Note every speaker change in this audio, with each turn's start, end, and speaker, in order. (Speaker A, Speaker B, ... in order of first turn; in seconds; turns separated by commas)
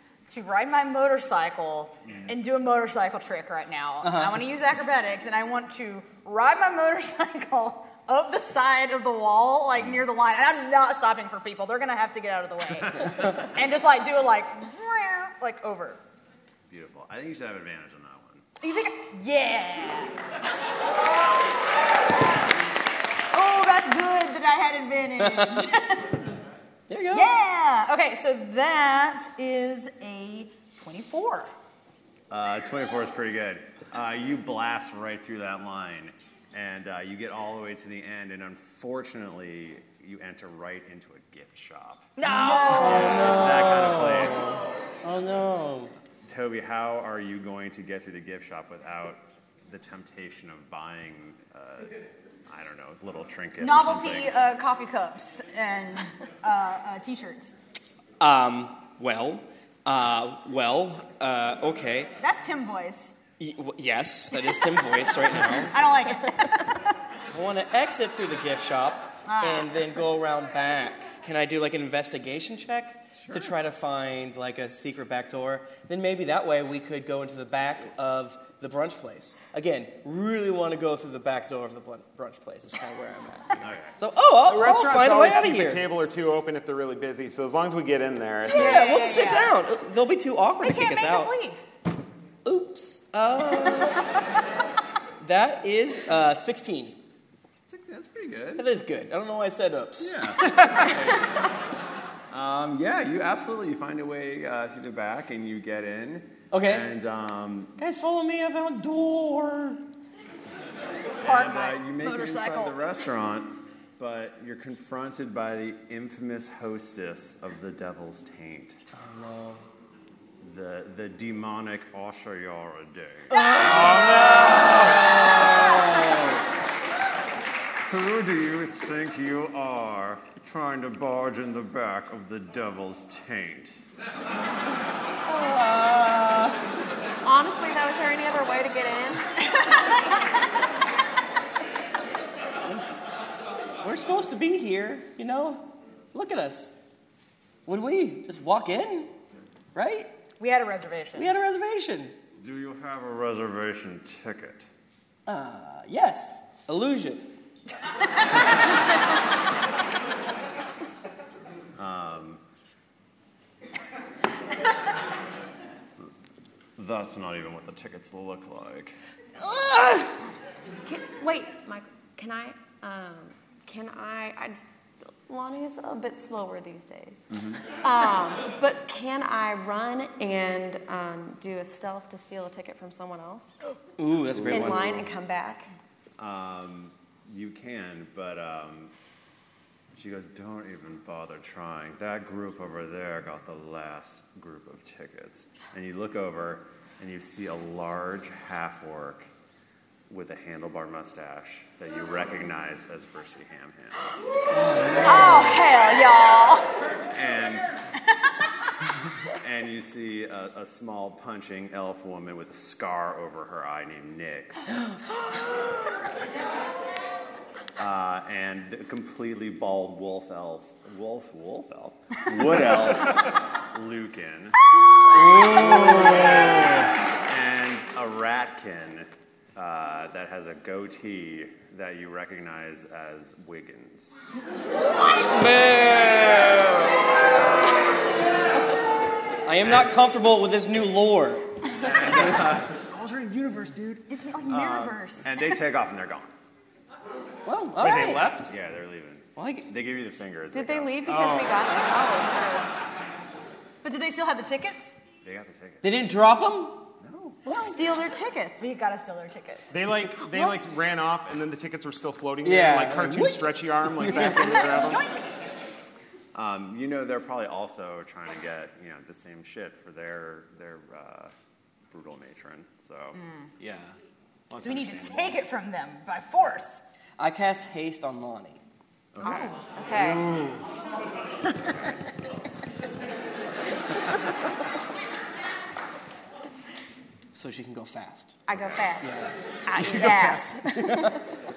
Speaker A: 0.3-16.0, Speaker B: 2.0-2.4, Speaker C: 4.0-4.4, Speaker B: 9.8-10.1, Speaker B: 16.7-18.5, Speaker A: 18.6-20.1, Speaker A: 23.3-26.2, Speaker C: 25.2-25.6, Speaker C: 26.9-27.4, Speaker A: 27.1-31.5, Speaker B: 32.3-42.1, Speaker A: 42.2-43.1, Speaker D: 42.2-43.0, Speaker C: 42.7-45.9, Speaker B: 42.7-44.7, Speaker B: 46.2-54.4, Speaker A: 53.6-57.5, Speaker C: 58.2-62.1, Speaker A: 62.2-63.1, Speaker C: 63.4-65.8, Speaker A: 65.5-66.7, Speaker C: 67.3-85.9, Speaker A: 69.2-69.7, Speaker B: 73.2-73.5, Speaker B: 83.6-83.9, Speaker E: 84.4-88.7, Speaker A: 88.5-89.5, Speaker C: 88.5-91.3, Speaker A: 90.6-91.6, Speaker C: 92.4-94.1, Speaker C: 95.2-97.0, Speaker B: 97.7-98.7, Speaker C: 98.5-100.2, Speaker B: 100.0-101.2, Speaker B: 102.3-107.7, Speaker C: 106.5-106.9, Speaker C: 107.8-109.8, Speaker B: 111.2-118.8, Speaker A: 111.2-112.8, Speaker C: 118.9-119.6, Speaker B: 120.4-124.7, Speaker C: 123.3-126.4, Speaker E: 123.6-125.0, Speaker B: 127.9-133.8, Speaker C: 135.2-136.6, Speaker D: 137.2-139.4, Speaker C: 143.8-146.8, Speaker C: 147.7-149.1, Speaker C: 149.7-150.1, Speaker A: 150.4-151.3, Speaker C: 151.1-152.1, Speaker B: 152.4-154.7, Speaker C: 155.2-157.3, Speaker B: 161.8-162.4, Speaker B: 166.8-168.9, Speaker C: 169.4-170.1, Speaker D: 170.8-174.6, Speaker D: 175.3-183.6, Speaker B: 177.3-177.6, Speaker C: 184.0-185.1, Speaker B: 184.4-184.9, Speaker D: 184.5-185.7, Speaker B: 186.2-188.9, Speaker B: 189.9-199.3, Speaker B: 200.1-204.3, Speaker C: 204.5-205.6, Speaker D: 205.0-206.7, Speaker B: 207.1-207.7, Speaker B: 209.4-214.7, Speaker B: 217.8-224.6, Speaker C: 225.1-226.8, Speaker B: 225.3-226.7, Speaker B: 227.2-234.1, Speaker B: 235.9-237.1, Speaker C: 239.4-242.6, Speaker B: 239.6-239.9, Speaker B: 241.7-246.3, Speaker A: 244.1-245.4, Speaker C: 247.4-248.4, Speaker E: 247.8-248.5, Speaker B: 248.4-251.1, Speaker C: 249.3-249.7, Speaker D: 250.5-252.5, Speaker E: 251.1-251.6, Speaker A: 251.9-252.6, Speaker A: 253.8-254.9, Speaker B: 255.2-255.9, Speaker C: 255.8-256.9, Speaker B: 257.0-257.4, Speaker D: 257.4-258.7, Speaker A: 258.6-259.7, Speaker E: 259.7-265.1, Speaker C: 262.4-264.3, Speaker A: 264.5-265.2, Speaker B: 266.3-271.3, Speaker B: 271.9-273.2, Speaker A: 273.1-273.5, Speaker E: 273.6-273.9, Speaker E: 274.5-275.4, Speaker A: 274.6-276.8, Speaker C: 277.2-278.6, Speaker B: 279.1-279.6, Speaker D: 279.2-280.3, Speaker A: 279.2-279.6, Speaker C: 287.3-288.4, Speaker D: 288.5-291.2, Speaker B: 288.5-288.8, Speaker C: 289.0-291.2, Speaker E: 289.9-290.4